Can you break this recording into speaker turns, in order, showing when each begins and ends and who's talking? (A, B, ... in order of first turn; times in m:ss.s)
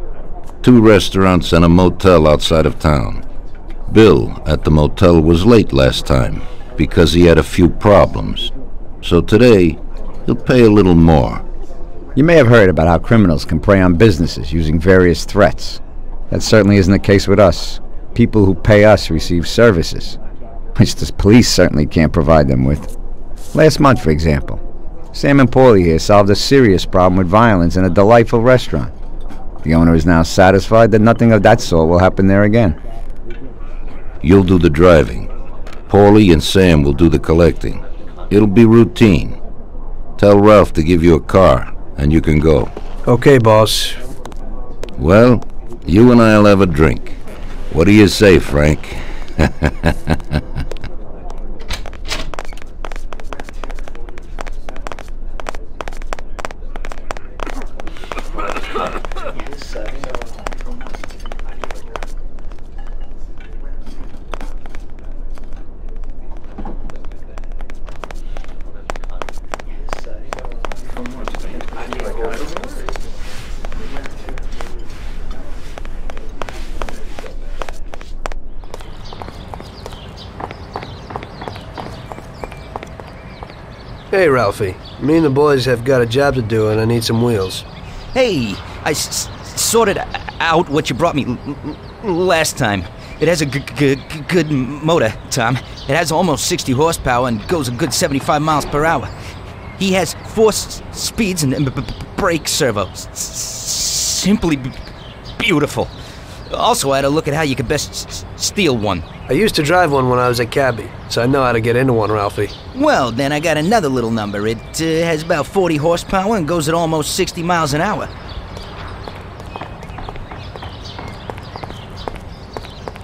0:00.6-0:03.2 A
0:03.9-0:08.5 A
0:09.0-0:11.4 A
0:12.2-0:20.2 B
0:20.8-0:22.9 B
0:23.5-0:24.6 B
0:25.1-0:28.9 B
0:29.6-0:32.8 B
0:34.2-0:35.3 A
0:35.9-0:39.4 A
0:40.2-0:42.7 A
0:43.1-0:44.0 C
0:45.0-0:47.2 A
0:47.7-0:50.2 A
1:24.1-1:27.6 C
1:28.1-1:39.1 D
1:39.8-1:44.7 D
1:45.4-1:45.9 D
1:46.5-1:49.1 D
1:49.3-1:52.5 C
1:52.7-1:58.1 D